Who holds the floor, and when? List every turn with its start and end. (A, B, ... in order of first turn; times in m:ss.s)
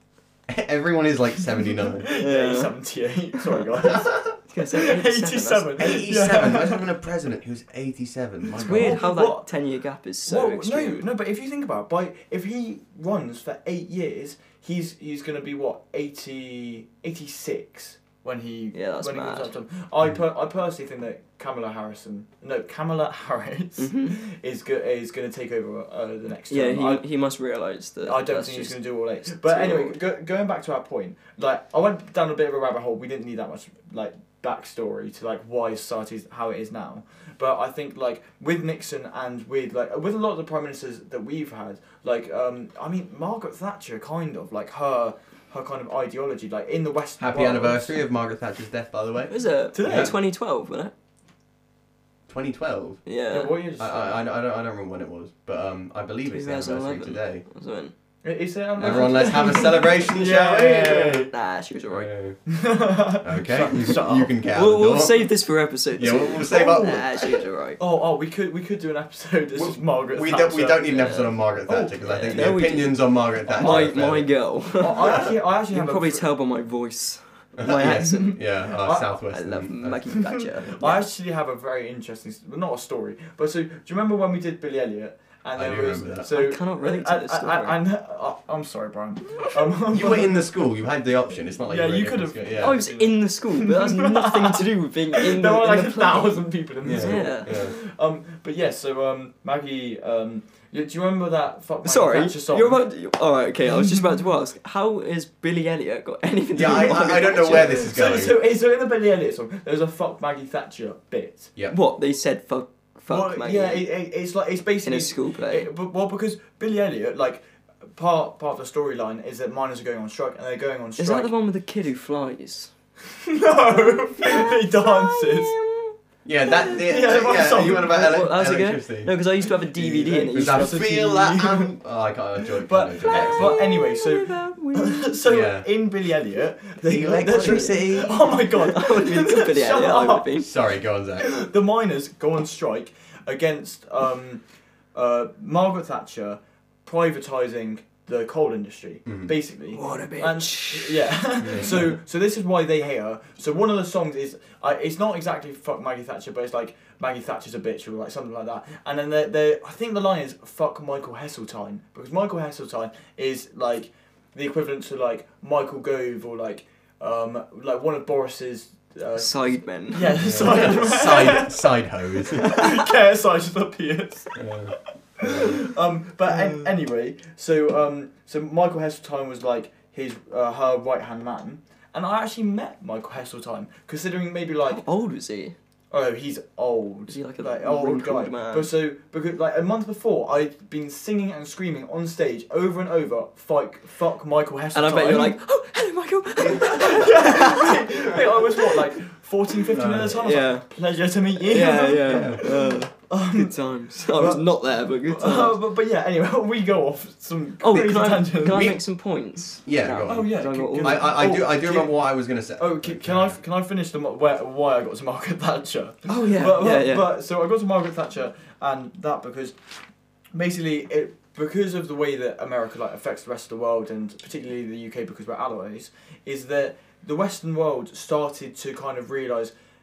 0:00.5-0:02.1 A
0:01.9-0:06.8 B
0:02.2-0:02.8 C
0:03.3-0:03.7 C
0:04.5-0:05.9 C
0:05.8-0:09.0 A
0:08.5-0:09.5 B
0:08.6-0:11.0 C
0:10.2-0:27.0 B
0:18.7-0:19.5 C
0:23.8-0:24.2 C
0:26.5-0:30.0 C
0:28.0-0:48.0 B
0:47.2-0:50.1 A
0:49.3-0:50.9 C
0:49.7-0:50.2 B
0:52.3-0:53.0 A
0:53.0-0:53.6 C
0:53.3-0:54.2 B
0:53.8-0:57.4 A
0:56.3-0:57.9 C
0:58.2-1:01.3 B
0:58.8-1:01.3 A
0:58.8-1:02.1 C
1:01.9-1:02.4 A
1:02.5-1:04.3 B
1:03.2-1:05.3 A
1:03.8-1:07.8 C
1:05.9-1:07.4 A
1:06.0-1:07.1 B
1:07.8-1:10.8 B
1:09.5-1:14.4 A
1:10.8-1:11.4 C
1:11.6-1:12.4 B
1:12.0-1:18.4 C
1:13.5-1:13.9 B
1:14.8-1:16.2 B
1:17.6-1:20.2 A
1:17.9-1:19.1 B
1:19.3-1:21.0 C
1:20.3-1:30.4 B
1:25.5-1:26.3 A
1:26.2-1:27.8 C
1:29.9-1:32.8 A
1:31.6-1:42.8 B
1:32.6-1:37.7 C
1:36.8-1:37.8 A
1:41.8-1:47.9 C
1:46.5-1:48.3 A
1:47.1-1:51.5 B
1:51.7-1:53.9 C
1:53.1-2:01.3 B
1:54.8-1:55.7 C
2:01.0-2:02.7 C
2:03.2-2:05.5 B
2:04.2-2:07.1 C
2:06.2-2:09.2 A
2:06.7-2:08.3 B
2:07.8-2:10.9 C
2:09.7-2:13.6 A
2:10.0-2:11.7 B
2:12.4-2:20.3 B
2:13.1-2:15.1 C
2:15.2-2:15.7 A
2:16.9-2:18.2 A
2:17.3-2:20.5 C
2:20.4-2:21.3 A
2:21.2-2:24.4 B
2:24.9-3:04.8 B
2:29.0-2:29.3 A
2:29.7-2:31.2 C
2:31.4-2:32.0 A
2:49.2-2:50.5 C
2:50.2-2:52.6 A
2:52.5-2:52.8 C
2:54.3-2:55.6 A
2:56.3-2:56.6 C
3:04.7-3:05.5 C
3:05.9-3:15.4 B
3:07.1-3:08.7 C
3:14.7-3:18.9 C
3:16.4-3:17.3 A
3:16.6-3:23.6 B
3:19.7-3:20.2 A
3:20.0-3:20.7 C
3:21.4-3:25.6 C
3:22.0-3:22.4 A
3:24.1-3:28.7 B
3:27.6-3:31.2 C
3:28.5-3:28.8 A
3:29.6-3:33.4 A
3:30.0-3:32.0 B
3:32.6-3:39.6 B
3:36.1-3:37.1 C
3:40.3-3:49.5 B